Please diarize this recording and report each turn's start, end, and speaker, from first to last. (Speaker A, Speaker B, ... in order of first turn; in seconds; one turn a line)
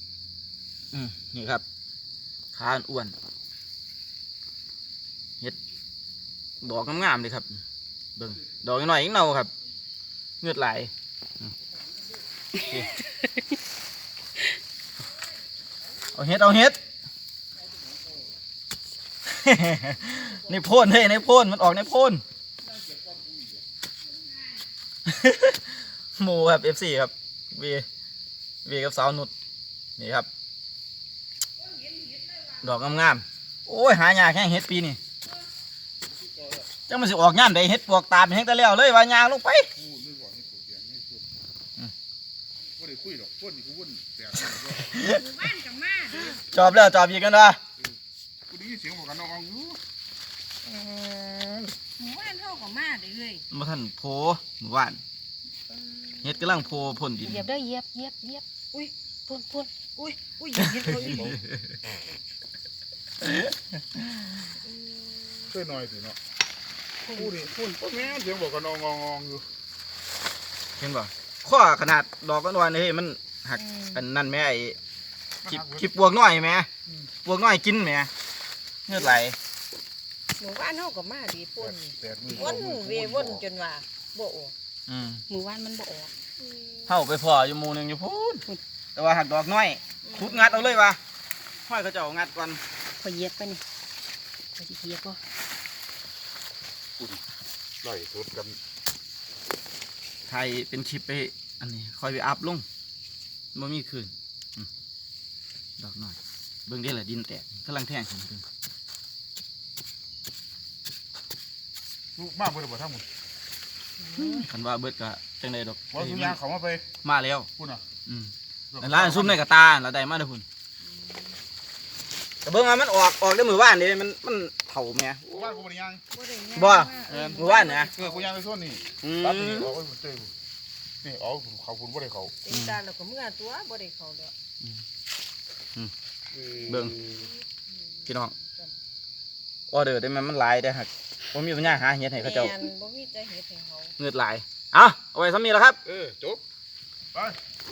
Speaker A: 0.9-1.6
Speaker A: 2.5-3.1
Speaker A: 6.6-7.6
Speaker A: 8.2-9.5
Speaker A: 10.4-11.5
Speaker A: 12.6-12.9
Speaker B: 12.8-13.3
Speaker A: 16.1-16.8
Speaker A: 19.2-22.2
Speaker C: 23.0-23.4
Speaker A: 25.1-27.9
Speaker A: 28.6-29.3
Speaker A: 30.0-30.3
Speaker A: 32.6-35.0
Speaker C: 36.2-36.6
Speaker A: 36.9-39.7
Speaker C: 39.8-41.2
Speaker C: 42.8-44.9
Speaker A: 44.7-45.3
Speaker D: 45.0-46.6
Speaker A: 46.3-47.6
Speaker C: 48.5-49.8
Speaker D: 50.6-53.4
Speaker A: 53.5-55.0
Speaker D: 56.0-56.6
Speaker A: 56.2-57.5
Speaker B: 57.2-58.4
Speaker B: 59.3-59.7
Speaker D: 59.8-61.3
Speaker B: 60.5-61.3
Speaker A: 60.7-61.7
Speaker A: 63.2-64.3
Speaker D: 64.6-65.5
Speaker C: 65.5-66.2
Speaker B: 67.0-67.8
Speaker C: 67.2-69.5
Speaker A: 70.8-74.8
Speaker D: 73.5-74.0
Speaker C: 75.5-75.8
Speaker A: 75.5-76.7
Speaker A: 77.2-78.1
Speaker A: 78.9-79.4
Speaker D: 78.9-79.2
Speaker D: 80.4-84.5
Speaker C: 81.9-83.4
Speaker A: 84.9-85.2
Speaker B: 85.3-86.1
Speaker D: 86.5-86.8
Speaker A: 86.9-91.0
Speaker D: 90.0-90.8
Speaker A: 91.7-92.6
Speaker B: 93.0-93.6
Speaker B: 94.6-95.2
Speaker C: 97.8-98.6
Speaker A: 100.3-102.7
Speaker A: 103.5-104.7
Speaker A: 105.8-108.4
Speaker C: 112.2-113.0
Speaker A: 114.2-116.4
Speaker C: 115.9-116.8
Speaker A: 117.0-117.5
Speaker C: 117.6-117.8
Speaker A: 118.0-120.4
Speaker C: 118.7-119.4
Speaker A: 122.4-125.6
Speaker C: 125.3-126.0
Speaker D: 126.1-128.3
Speaker A: 126.5-127.9
Speaker C: 127.1-130.3
Speaker A: 129.0-129.8
Speaker C: 131.0-132.3
Speaker D: 132.4-134.3
Speaker A: 132.5-132.8
Speaker A: 136.7-137.0
Speaker A: 138.1-138.3
Speaker D: 138.4-138.7
Speaker A: 139.7-142.6
Speaker D: 142.2-143.9
Speaker A: 144.0-145.8
Speaker C: 145.8-146.4